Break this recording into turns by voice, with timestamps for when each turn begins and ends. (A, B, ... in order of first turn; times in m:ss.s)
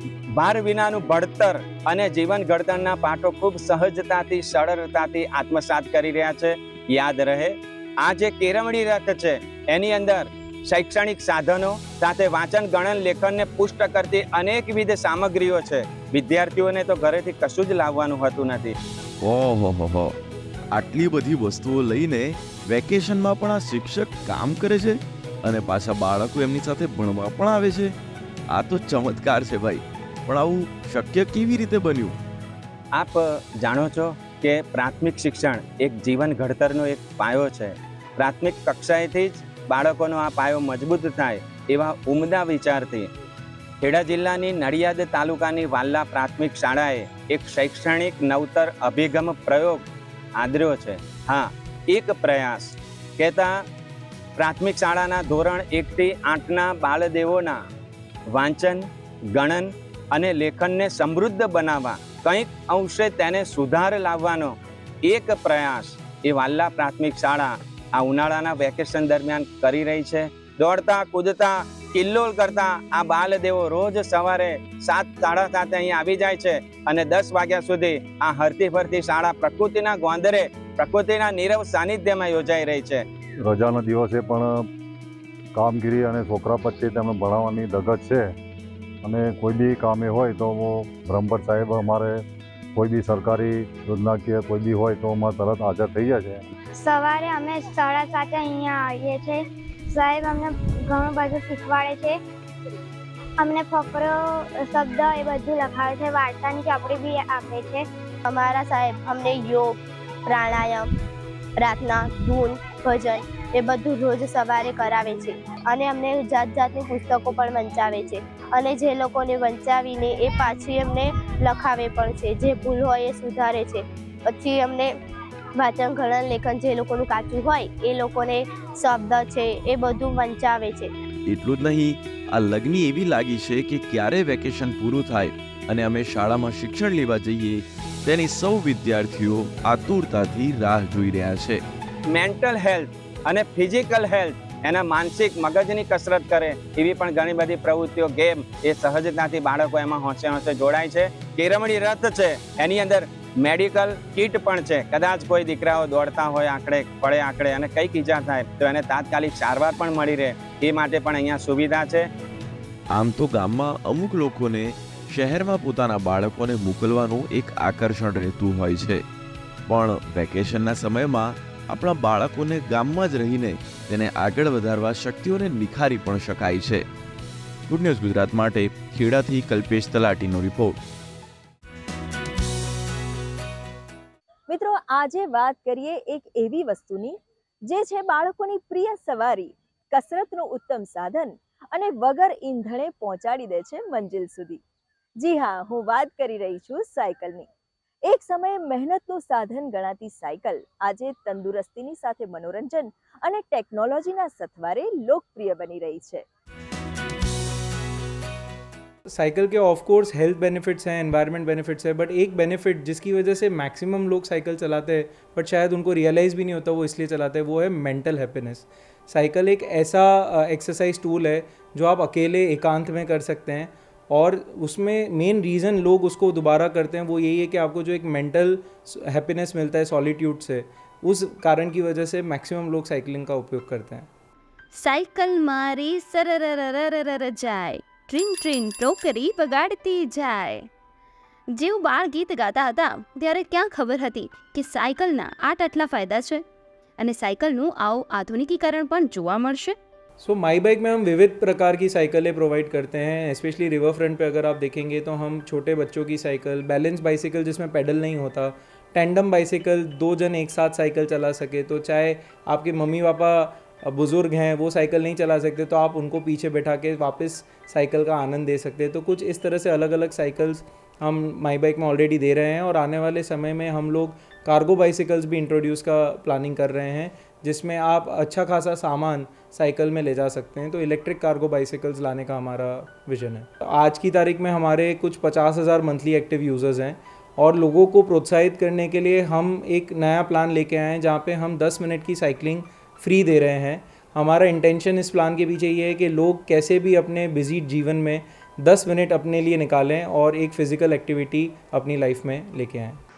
0:00.4-0:18.7 A
0:19.2-0:20.2 B
0:20.7-0:28.0 B
0:28.5-0:32.2 B
0:32.9-0:43.1 A
0:43.8-0:49.8 A
0:50.4-0:53.6 A
0:54.4-0:57.6 A
0:58.3-1:23.0 A
1:23.4-1:24.6 C
1:25.6-1:28.4 C
1:29.0-1:32.2 C
1:32.8-1:36.5 C
1:36.8-1:42.2 D
1:43.4-1:47.9 D
1:48.2-1:50.9 E
1:51.6-2:04.9 E
2:05.6-2:10.9 E
2:11.3-2:21.6 B
2:22.1-2:42.1 A
2:42.9-2:49.0 B
2:49.7-2:56.9 B
2:57.7-3:00.8 B
3:04.5-3:14.6 F
3:15.2-3:17.5 F
3:18.0-3:26.2 F
3:29.1-3:54.1 G
3:54.7-4:00.7 H
4:01.5-4:06.4 H
4:07.0-4:09.8 H
4:10.2-5:03.0 G